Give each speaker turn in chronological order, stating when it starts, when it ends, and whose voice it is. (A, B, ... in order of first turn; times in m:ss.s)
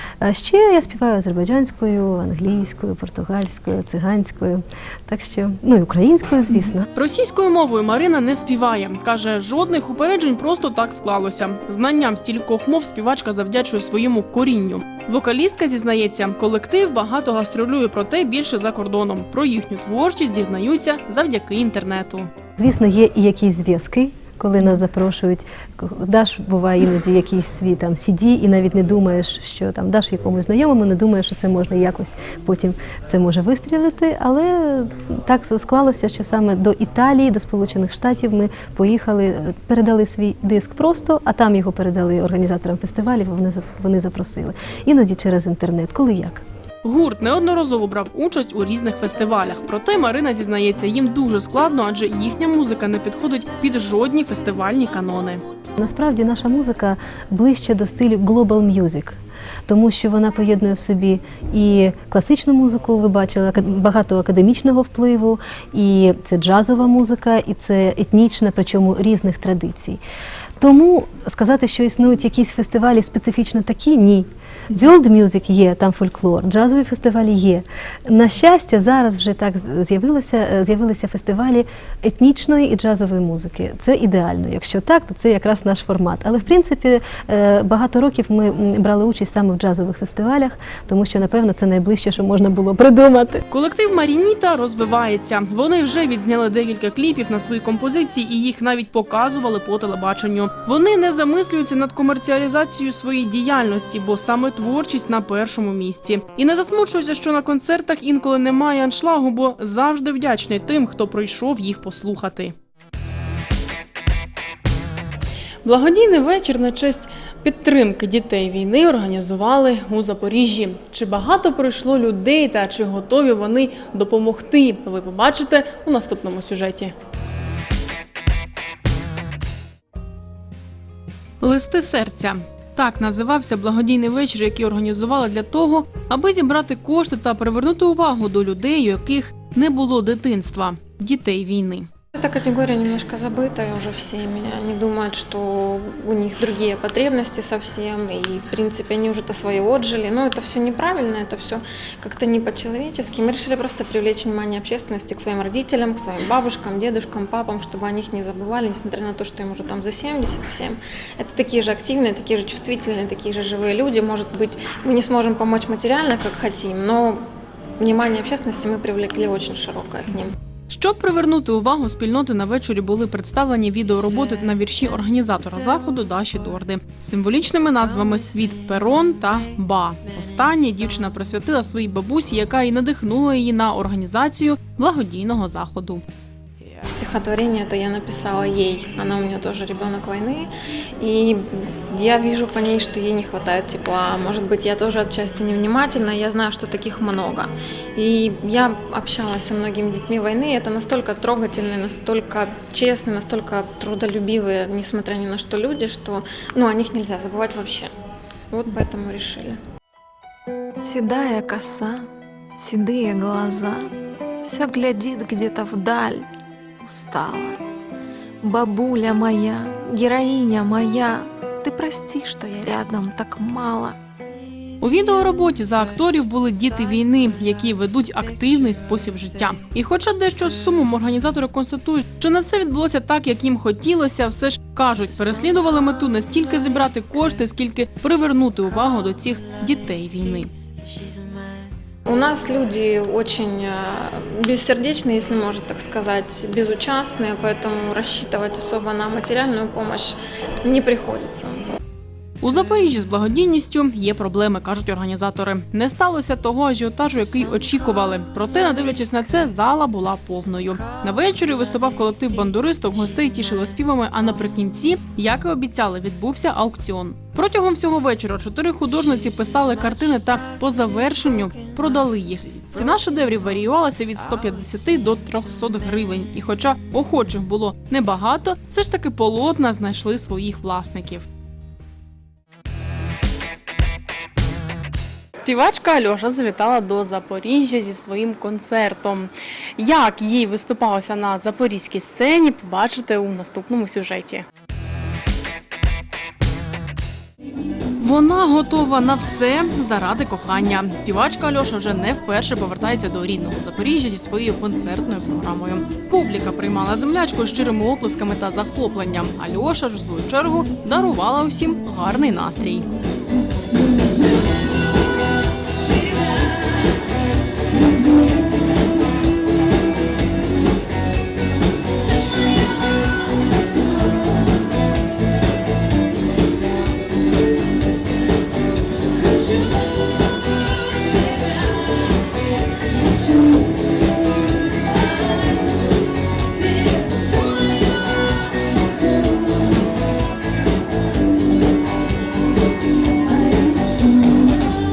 0:00.2-0:06.9 A
0:07.0-0:22.3 B
0:22.6-0:46.4 A
0:46.8-0:55.4 B
0:55.8-1:10.0 A
1:10.6-1:33.4 A
1:33.5-1:52.6 B
1:55.6-2:06.9 B
2:11.4-2:21.9 B
2:22.2-2:47.2 C
2:47.8-2:50.4 C
2:50.7-3:06.0 B
3:06.8-3:27.9 C
3:28.5-3:29.6 C
3:30.8-3:33.9 D
3:34.4-3:36.3 D
3:36.8-3:37.5 D
3:38.4-3:43.8 D
3:43.4-3:43.8 C
3:44.8-4:00.5 B
4:02.1-4:11.7 C
4:12.4-4:41.3 B
4:45.4-4:54.4 B
4:58.0-5:12.9 B
5:29.2-5:29.8 D
5:30.5-5:32.2 D
5:34.9-5:35.8 D
5:36.6-5:38.8 D